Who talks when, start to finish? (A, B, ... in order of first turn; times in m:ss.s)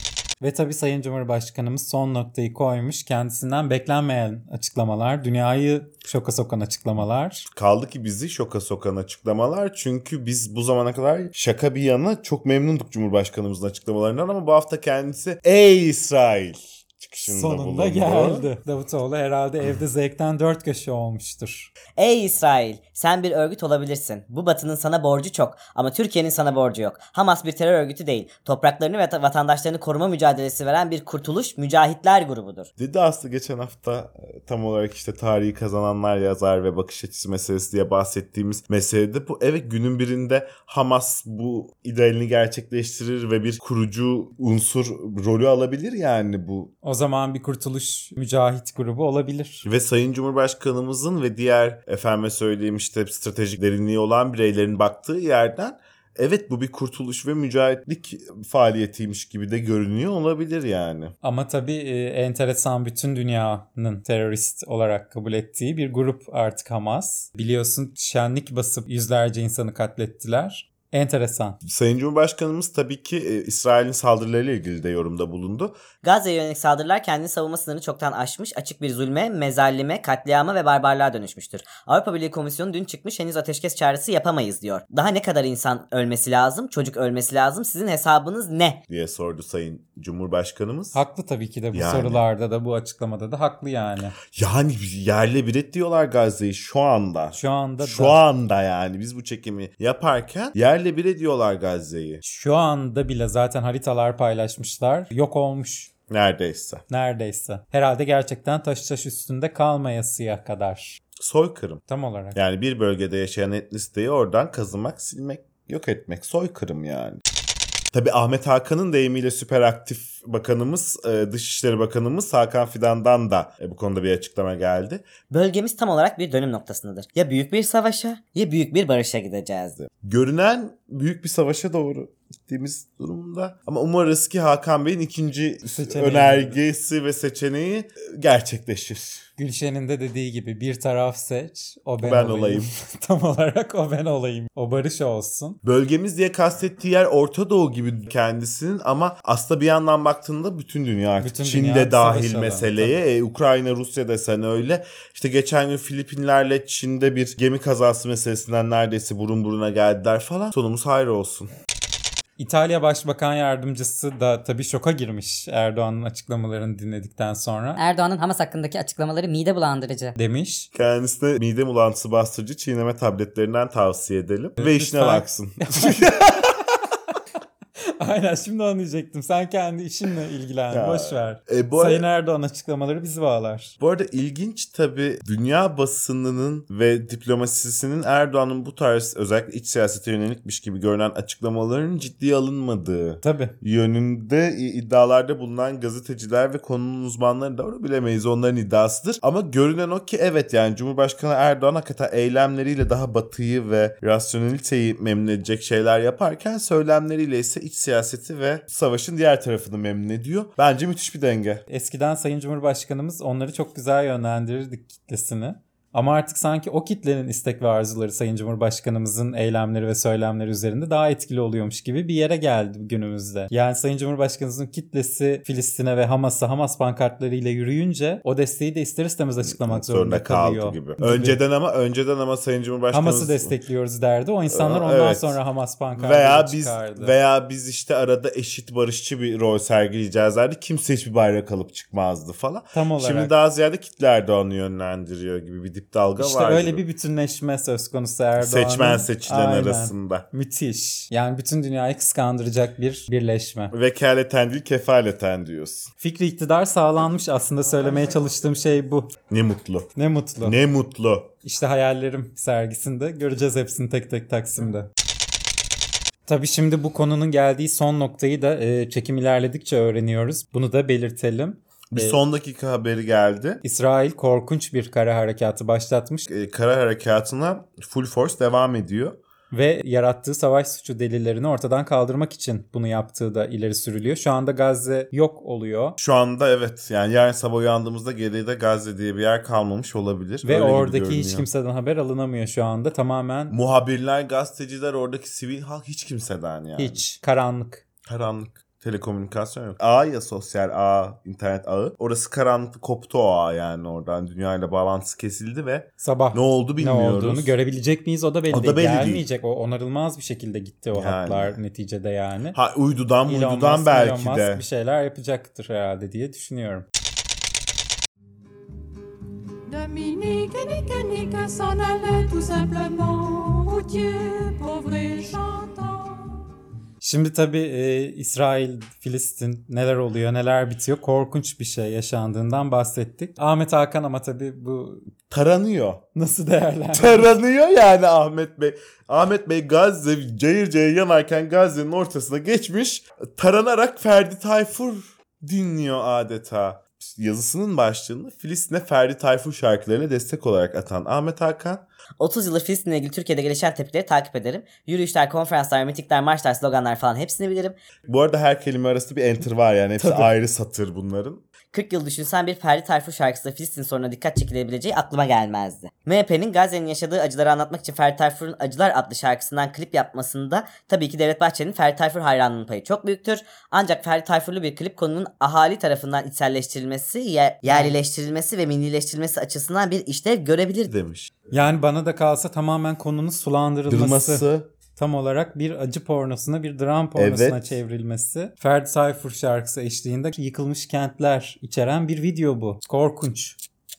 0:00.4-0:07.5 A
0:07.5-0:18.5 B
0:17.2-0:21.7 A
0:22.0-0:32.7 C
0:32.8-0:46.7 B
0:46.8-0:49.6 A
0:49.6-1:01.1 B
1:01.2-1:11.6 A
1:11.6-1:15.8 B
1:16.0-1:28.8 C
1:28.9-1:31.0 B
1:30.9-1:34.2 A
1:31.7-1:32.2 B
1:34.3-1:42.2 B
1:37.3-1:38.2 A
1:42.2-1:45.9 A
1:46.1-1:46.8 B
1:46.9-1:51.0 A
1:51.2-1:51.8 B
1:51.9-1:52.4 A
1:52.3-1:57.2 B
1:57.9-2:05.1 B
2:05.3-2:09.8 C
2:10.0-2:19.2 B
2:15.7-2:16.6 A
2:19.4-2:25.6 A
2:22.0-2:22.7 B
2:25.6-2:41.5 B
2:31.2-2:32.9 A
2:42.4-2:47.8 A
2:47.8-2:50.1 D
2:50.2-2:50.7 A
2:50.7-2:56.6 B
2:54.6-2:56.1 A
2:58.0-3:03.7 A
3:00.7-3:02.0 B
3:03.8-3:31.6 B
3:13.2-3:13.5 A
3:31.7-3:51.4 A
3:49.4-3:53.5 B
3:52.9-3:57.1 A
3:54.5-3:55.4 B
3:55.9-4:06.8 B
4:02.7-4:03.3 A
4:06.2-4:13.7 A
4:08.4-4:10.2 B
4:13.7-4:15.9 B
4:16.0-4:19.1 A
4:19.3-4:19.9 B
4:20.0-4:20.6 A
4:20.4-4:21.3 B
4:21.4-4:24.9 A
4:26.3-4:32.2 A
4:31.9-4:33.6 B
4:33.6-4:36.3 A
4:36.3-4:39.2 B
4:39.5-4:46.0 A
4:46.0-4:51.5 B
4:50.4-4:53.6 A
4:53.5-4:57.0 B
4:56.8-4:57.8 A
4:58.0-5:07.5 B
5:06.0-5:12.6 A
5:08.5-5:09.2 B
5:10.9-5:11.6 B
5:12.5-5:14.6 B
5:13.2-5:16.9 A
5:19.7-5:26.4 E
5:27.0-5:35.1 A
5:35.3-5:36.0 B
5:36.1-5:37.3 A
5:36.9-5:51.8 B
5:52.2-5:57.7 C
5:58.0-6:01.4 B
6:00.0-6:00.3 A
6:01.7-6:20.9 C
6:20.9-6:21.3 B
6:21.5-6:24.4 A
6:23.9-6:24.7 B
6:25.0-6:33.6 A
6:27.2-6:27.8 B